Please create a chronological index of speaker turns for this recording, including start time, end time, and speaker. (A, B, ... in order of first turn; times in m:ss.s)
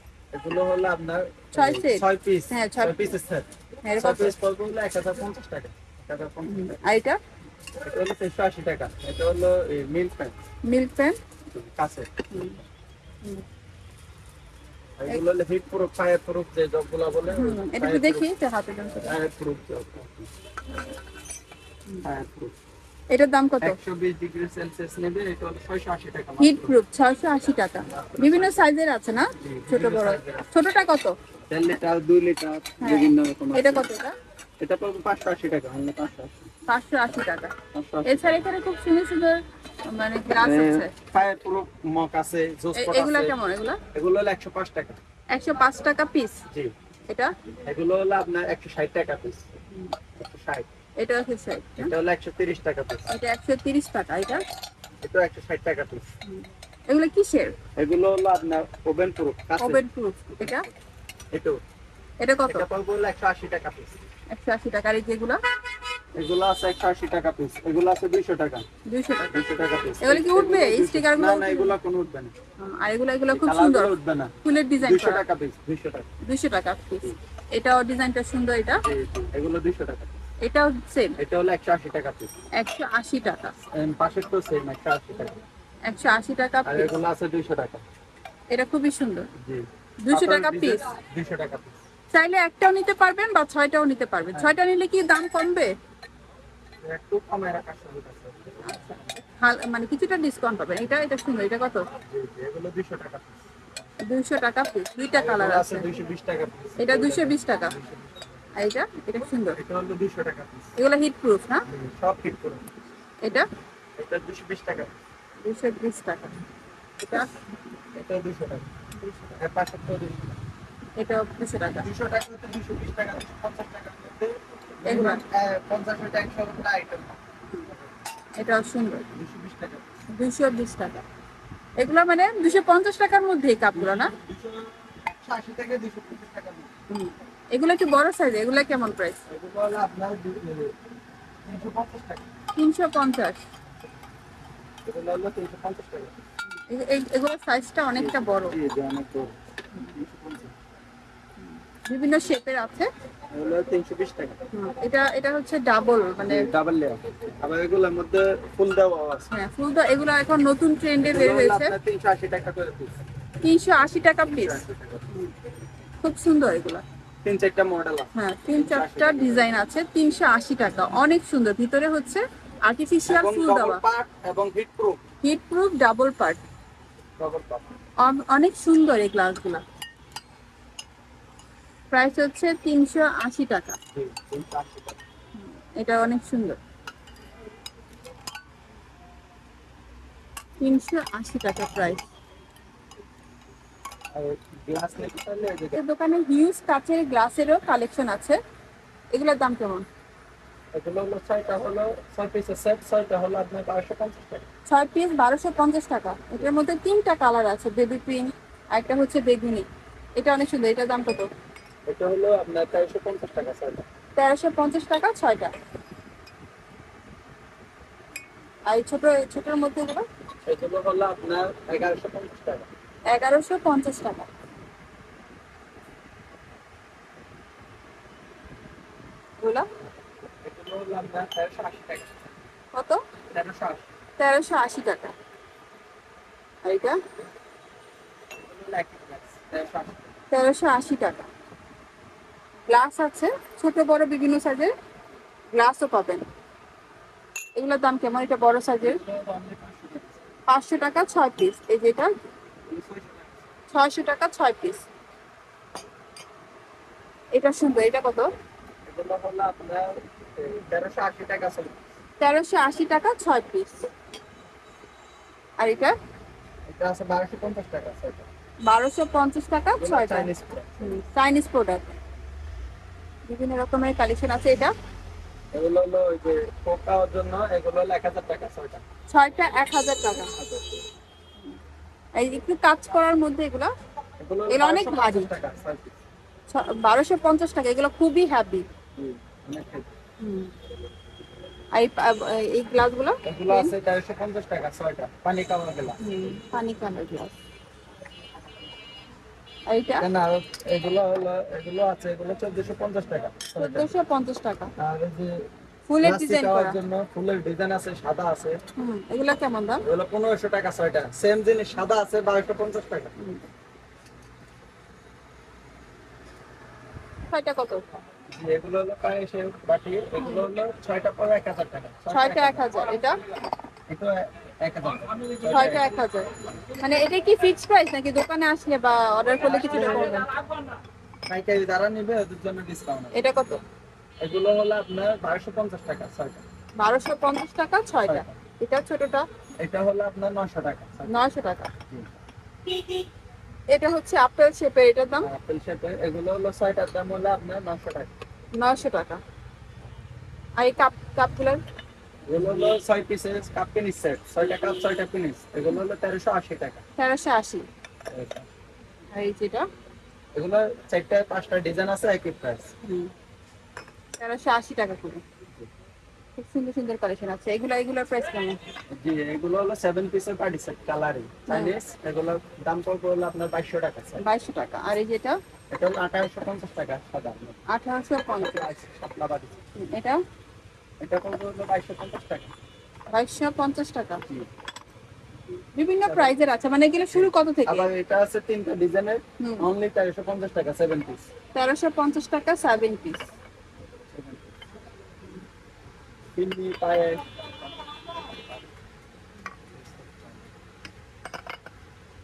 0:00.3-0:06.8 A
0:01.5-0:03.2 B
0:03.8-0:04.4 B
0:06.5-0:07.2 B
0:07.8-0:10.4 A
0:10.6-0:11.2 B
0:11.5-0:12.1 A
0:12.3-0:12.6 B
0:15.0-0:18.2 A
0:17.3-0:19.2 B
0:19.0-0:20.3 A
0:22.0-0:22.6 A
0:23.1-0:23.8 B
0:23.6-0:26.8 A
0:26.4-0:31.2 B
0:27.8-0:28.7 A
0:29.4-0:30.5 A
0:31.5-0:33.9 A
0:32.8-0:34.2 B
0:34.6-0:36.5 A
0:36.7-0:41.0 B
0:37.7-0:38.5 A
0:40.4-0:43.4 A
0:42.8-0:43.8 B
0:43.9-0:45.0 A
0:45.3-0:46.4 B
0:47.7-0:49.5 A
0:50.2-0:50.7 A
0:51.0-0:51.9 B
0:51.8-0:53.1 A
0:53.1-0:54.4 B
0:55.0-0:56.1 A
0:56.3-0:57.6 B
0:57.8-1:00.8 A
0:59.6-1:00.7 B
1:01.3-1:01.6 A
1:02.2-1:02.6 B
1:02.5-1:04.0 A
1:04.3-1:05.4 B
1:06.2-1:08.7 A
1:08.9-1:09.4 B
1:09.3-1:12.3 A
1:10.0-1:11.8 B
1:12.6-1:15.2 B
1:13.3-1:16.1 A
1:16.2-1:18.8 B
1:18.8-1:20.2 A
1:20.4-1:21.2 B
1:21.2-1:22.3 A
1:22.6-1:23.5 B
1:23.7-1:25.4 A
1:25.9-1:26.9 B
1:26.6-1:27.8 A
1:28.5-1:29.3 B
1:29.4-1:31.8 A
1:30.0-1:30.9 B
1:32.1-1:35.8 B
1:36.8-1:38.8 A
1:38.6-1:41.9 B
1:42.0-1:43.4 A
1:44.0-1:45.9 B
1:45.1-1:48.3 A
1:46.8-1:47.8 B
1:48.6-1:49.6 B
1:49.6-1:50.7 A
1:50.8-1:51.6 B
1:51.7-1:52.7 A
1:53.2-1:53.5 B
1:54.0-1:54.9 A
1:55.4-1:56.4 B
1:57.0-1:57.3 A
1:57.1-1:57.4 B
1:58.0-1:58.7 A
1:59.0-1:59.4 B
1:59.4-2:00.4 A
2:01.0-2:01.9 B
2:01.7-2:07.8 A
2:04.8-2:05.2 B
2:08.4-2:09.1 B
2:09.1-2:09.9 A
2:10.2-2:11.0 B
2:11.8-2:14.1 B
2:13.7-2:16.8 A
2:16.9-2:19.2 B
2:19.3-2:20.8 A
2:21.4-2:22.2 A
2:22.6-2:23.4 B
2:24.9-2:26.1 A
2:26.7-2:28.6 B
2:28.0-2:30.5 A
2:31.4-2:32.9 B
2:33.3-2:34.4 A
2:34.5-2:36.5 B
2:36.2-2:39.3 A
2:39.3-2:41.8 B
2:41.0-2:43.0 A
2:43.4-2:45.3 B
2:44.3-2:45.1 A
2:46.0-2:46.8 B
2:47.2-2:49.5 A
2:48.2-2:53.8 B
2:53.1-2:55.0 A
2:55.2-2:56.4 B
2:57.2-2:57.7 A
2:58.0-2:59.6 B
3:01.9-3:03.8 B
3:04.0-3:05.0 A
3:05.4-3:06.6 B
3:10.6-3:12.1 B
3:14.2-3:15.8 A
3:15.7-3:18.4 B
3:19.1-3:19.9 B
3:20.7-3:24.4 A
3:24.7-3:31.3 B
3:31.9-3:33.9 A
3:34.2-3:35.5 B
3:38.7-3:40.1 B
3:40.5-3:42.7 A
3:43.1-3:44.3 B
3:49.4-3:49.7 B
3:50.4-3:52.3 A
3:52.7-3:53.0 B
3:53.3-3:53.9 A
3:54.2-3:55.1 B
3:56.6-3:57.0 B
3:58.4-4:00.1 A
4:00.3-4:01.3 B
4:02.7-4:04.7 B
4:05.5-4:06.2 B
4:07.6-4:09.0 B
4:08.8-4:10.3 A
4:10.5-4:12.1 B
4:12.7-4:13.5 A
4:13.7-4:14.8 B
4:17.3-4:18.3 B
4:18.9-4:21.8 A
4:22.2-4:23.9 B
4:25.6-4:25.9 B
4:26.7-4:28.3 A
4:28.7-4:31.9 B
4:29.8-4:30.8 A
4:33.3-4:34.7 B
4:35.5-4:38.8 A
4:39.1-4:40.4 B
4:42.2-4:43.7 B
4:44.2-4:46.0 A
4:44.5-4:45.3 B
4:46.5-4:48.7 B
4:49.0-4:49.9 A
4:50.2-4:50.5 B
4:51.7-4:53.7 B
4:53.2-4:56.0 A
4:56.0-4:57.4 B
4:59.7-5:00.1 B
5:00.0-5:03.9 A
5:03.6-5:04.7 B
5:04.8-5:05.5 A
5:05.9-5:06.8 B
5:06.0-5:08.6 A
5:08.8-5:09.8 B
5:09.8-5:13.1 A
5:17.3-5:17.8 B
5:18.3-5:22.8 A
5:20.2-5:20.5 B
5:22.1-5:23.2 B
5:23.9-5:25.9 A
5:25.5-5:30.4 B
5:29.4-5:30.3 A
5:31.3-5:33.5 A
5:33.1-5:33.6 B
5:34.2-5:36.4 A
5:36.8-5:39.3 B
5:39.6-5:41.1 A
5:41.1-5:41.7 B
5:42.7-5:43.0 B
5:43.7-5:45.3 B
5:45.2-5:48.1 A
5:48.6-5:49.2 B
5:50.6-5:51.6 B
5:52.3-5:56.8 A
5:57.0-5:57.7 B
5:58.1-5:58.5 A
5:59.1-5:59.7 B
6:00.4-6:02.7 A
6:02.8-6:03.1 B
6:04.2-6:05.2 B
6:06.4-6:08.6 B
6:08.9-6:14.2 A
6:11.5-6:11.8 B
6:14.2-6:15.4 B
6:15.7-6:17.6 A
6:17.7-6:18.7 B
6:18.4-6:19.6 A
6:19.8-6:20.2 B
6:21.0-6:22.5 A
6:23.1-6:24.2 B
6:25.8-6:27.9 B
6:26.0-6:26.4 A
6:27.1-6:31.2 A
6:29.4-6:29.7 B
6:31.6-6:33.3 B
6:34.1-6:34.6 A
6:36.4-6:37.4 A
6:38.1-6:38.6 A
6:39.7-6:40.4 A